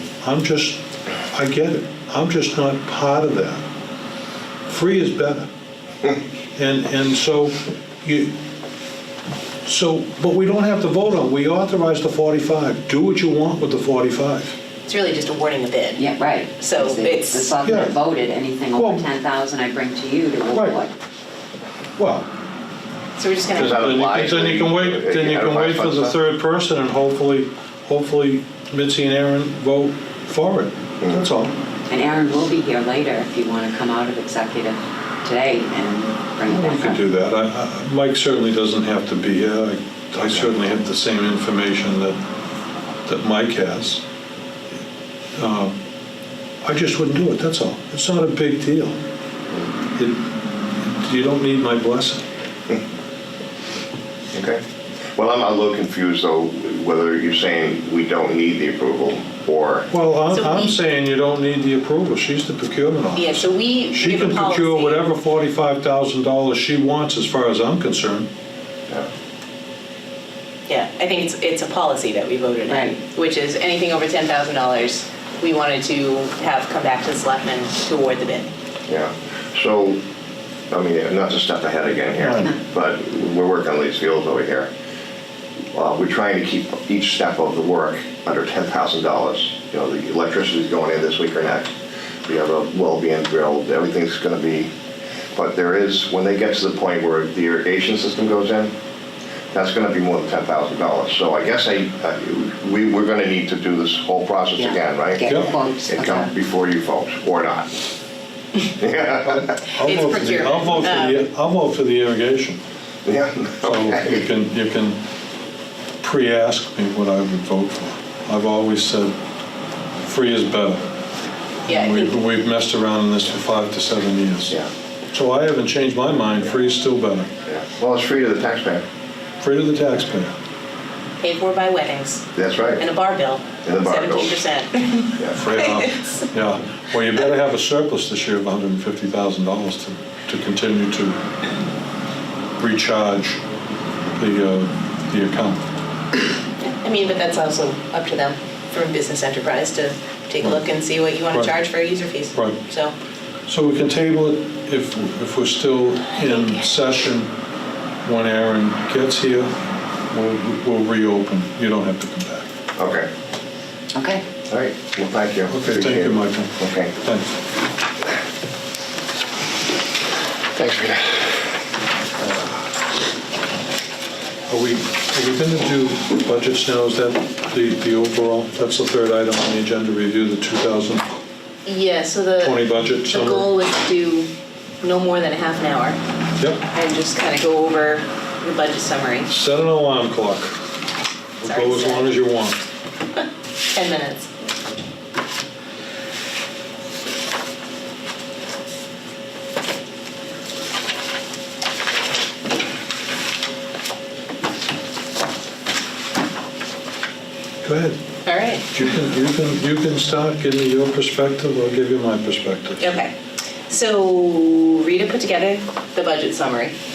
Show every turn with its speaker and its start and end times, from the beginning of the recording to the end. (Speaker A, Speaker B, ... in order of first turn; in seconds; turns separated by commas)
Speaker A: 0.2-0.8, Speaker A: 1.3-3.6, Speaker A: 4.7-5.5, Speaker A: 6.6-8.3, Speaker A: 9.7-14.6, Speaker B: 14.9-16.1, Speaker C: 16.0-20.9, Speaker B: 16.6-17.5, Speaker A: 17.6-18.0, Speaker A: 18.8-19.1, Speaker A: 20.5-20.8, Speaker A: 22.0-22.3, Speaker B: 23.2-23.9, Speaker D: 23.5-26.2, Speaker A: 23.5-31.5, Speaker C: 31.9-37.0, Speaker A: 36.5-42.2, Speaker A: 43.1-44.0, Speaker A: 45.4-45.8, Speaker A: 46.6-49.0, Speaker A: 50.8-52.2, Speaker D: 54.3-54.6, Speaker D: 55.2-59.9, Speaker A: 59.9-68.3, Speaker B: 60.3-60.8, Speaker B: 63.1-65.0, Speaker B: 70.7-78.5, Speaker C: 72.7-73.0, Speaker D: 78.9-80.0, Speaker D: 80.7-84.7, Speaker A: 82.2-82.5, Speaker D: 85.8-91.7, Speaker D: 92.3-94.7, Speaker D: 95.3-98.7, Speaker D: 99.5-107.7, Speaker C: 104.6-106.3, Speaker A: 105.3-105.5, Speaker D: 108.8-109.6, Speaker A: 109.3-112.6, Speaker B: 109.8-111.3, Speaker D: 113.0-114.2, Speaker A: 113.6-115.0, Speaker A: 116.0-119.2, Speaker A: 120.0-120.8, Speaker B: 121.7-122.1, Speaker A: 121.7-124.6, Speaker A: 125.1-127.3, Speaker D: 127.5-128.8, Speaker A: 129.4-130.4, Speaker B: 131.2-132.2, Speaker D: 132.3-132.8, Speaker B: 132.8-136.2, Speaker D: 133.7-134.4, Speaker A: 135.3-141.2, Speaker A: 142.6-143.4, Speaker A: 144.2-145.6, Speaker B: 146.8-152.9, Speaker A: 153.5-157.3, Speaker B: 156.2-156.7, Speaker A: 158.0-159.5, Speaker A: 160.1-162.5, Speaker D: 162.8-163.1, Speaker C: 163.9-164.2, Speaker D: 164.5-166.9, Speaker A: 165.5-167.3, Speaker D: 170.6-171.4, Speaker A: 174.5-181.1, Speaker B: 181.7-184.3, Speaker A: 182.4-183.5, Speaker B: 184.8-186.0, Speaker A: 186.4-186.6, Speaker B: 186.7-189.3, Speaker A: 189.3-190.5, Speaker A: 191.4-192.6, Speaker B: 191.4-192.2, Speaker B: 193.7-194.3, Speaker A: 207.6-208.0, Speaker B: 208.2-208.7, Speaker A: 208.7-212.9, Speaker B: 212.8-213.1, Speaker B: 213.7-216.8